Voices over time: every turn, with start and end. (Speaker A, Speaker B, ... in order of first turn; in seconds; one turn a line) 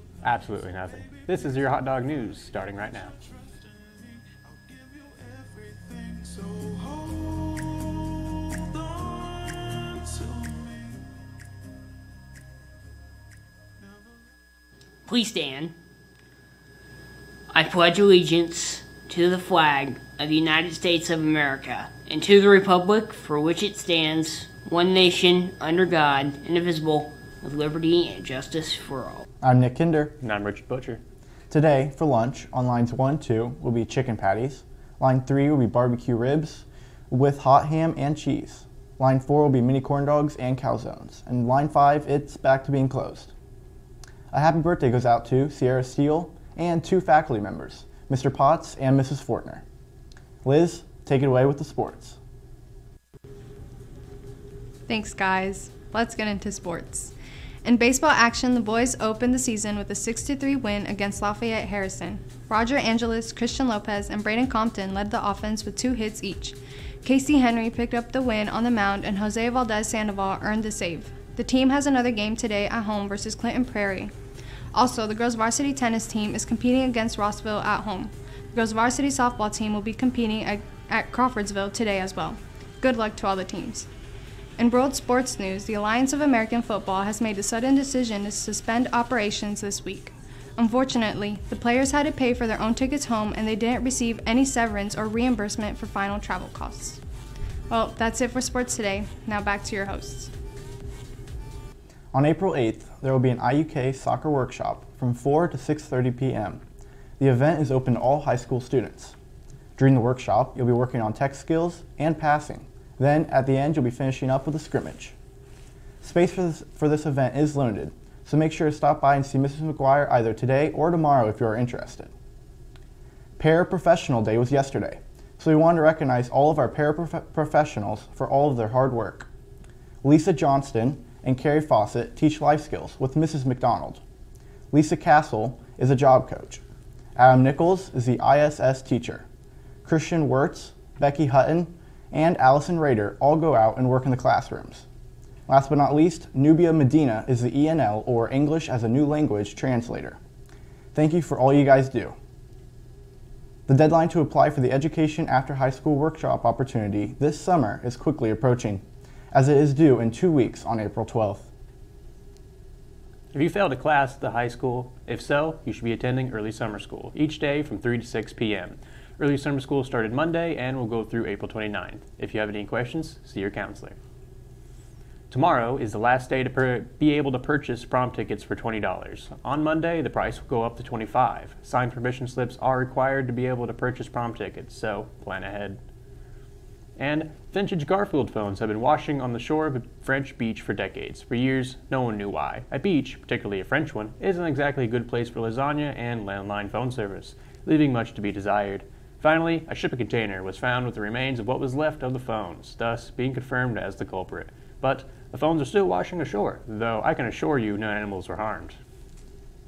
Speaker A: 0.2-3.1
Speaker B: 15.1-15.7
Speaker B: 17.5-29.2
Speaker C: 29.4-30.1
Speaker A: 30.2-31.0
Speaker C: 31.5-43.3
Speaker C: 44.3-49.6
Speaker C: 50.4-52.2
Speaker D: 54.9-57.1
Speaker D: 57.6-74.1
Speaker D: 74.7-83.9
Speaker D: 84.6-97.0
Speaker D: 97.7-100.3
Speaker C: 102.1-106.6
Speaker C: 107.2-109.2
Speaker C: 109.8-115.1
Speaker C: 116.0-122.1
Speaker C: 123.4-129.3
Speaker C: 130.0-134.0
Speaker C: 134.7-136.6
Speaker C: 137.2-139.2
Speaker C: 139.8-144.9
Speaker C: 145.5-150.2
Speaker C: 150.9-152.2
Speaker C: 153.7-161.5
Speaker A: 163.3-173.9
Speaker A: 175.3-185.8
Speaker A: 187.0-208.8